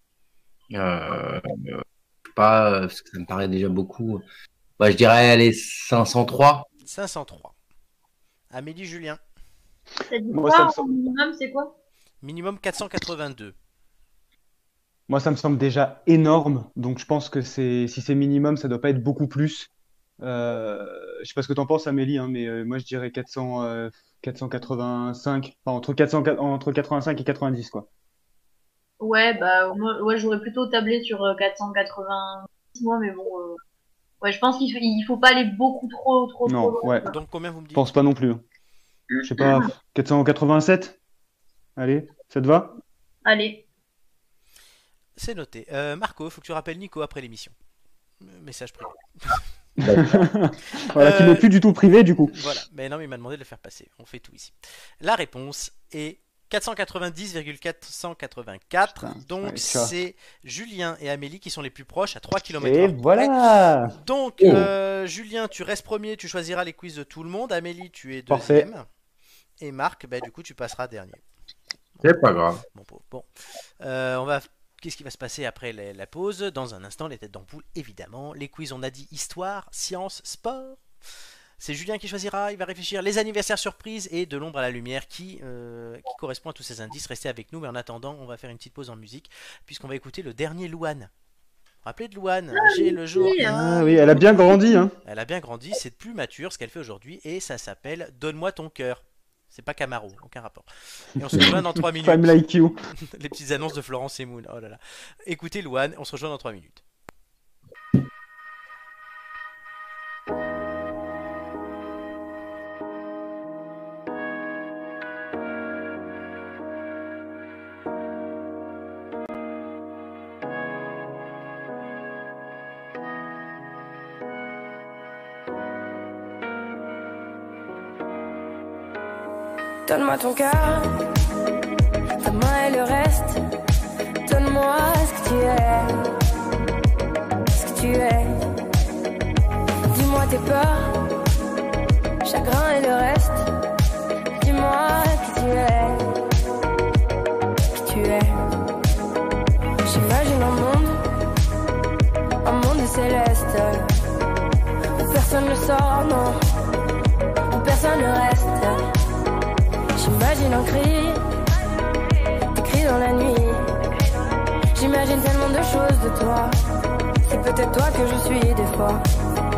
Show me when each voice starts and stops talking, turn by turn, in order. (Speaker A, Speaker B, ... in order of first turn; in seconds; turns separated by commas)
Speaker A: 0.7-1.8, Speaker A: 2.4-4.2, Speaker A: 4.8-6.7, Speaker B: 6.8-7.5, Speaker B: 8.5-9.2, Speaker C: 10.1-11.7, Speaker D: 10.3-10.9, Speaker B: 12.2-13.6, Speaker D: 15.1-19.7, Speaker D: 20.2-27.9, Speaker C: 29.0-33.6, Speaker C: 34.2-37.1, Speaker D: 36.5-37.1, Speaker B: 37.1-37.9, Speaker D: 37.7-38.4, Speaker D: 39.2-41.0, Speaker C: 39.4-39.7, Speaker D: 41.8-42.8, Speaker C: 43.2-43.6, Speaker B: 45.2-47.5, Speaker B: 48.2-49.4, Speaker D: 49.8-52.4, Speaker A: 49.8-50.2, Speaker B: 51.0-51.5, Speaker B: 52.3-63.3, Speaker D: 59.0-59.9, Speaker D: 62.6-64.0, Speaker B: 63.9-68.9, Speaker A: 64.4-64.7, Speaker D: 68.3-68.7, Speaker B: 69.6-71.2, Speaker A: 72.0-72.6, Speaker B: 72.7-73.3, Speaker B: 73.8-80.8, Speaker B: 81.6-91.1, Speaker B: 91.8-93.8, Speaker C: 92.5-94.9, Speaker D: 93.4-95.0, Speaker B: 95.0-102.4, Speaker D: 101.3-102.8, Speaker B: 103.0-106.8, Speaker E: 129.9-131.0, Speaker E: 132.2-133.4, Speaker E: 134.2-136.0, Speaker E: 137.5-138.4, Speaker E: 139.9-141.0, Speaker E: 142.2-143.4, Speaker E: 144.3-146.1, Speaker E: 147.8-148.4, Speaker E: 149.8-151.0, Speaker E: 152.4-153.9, Speaker E: 155.0-156.4, Speaker E: 157.5-158.8, Speaker E: 160.0-161.2, Speaker E: 162.5-163.7, Speaker E: 164.8-166.6, Speaker E: 167.2-169.0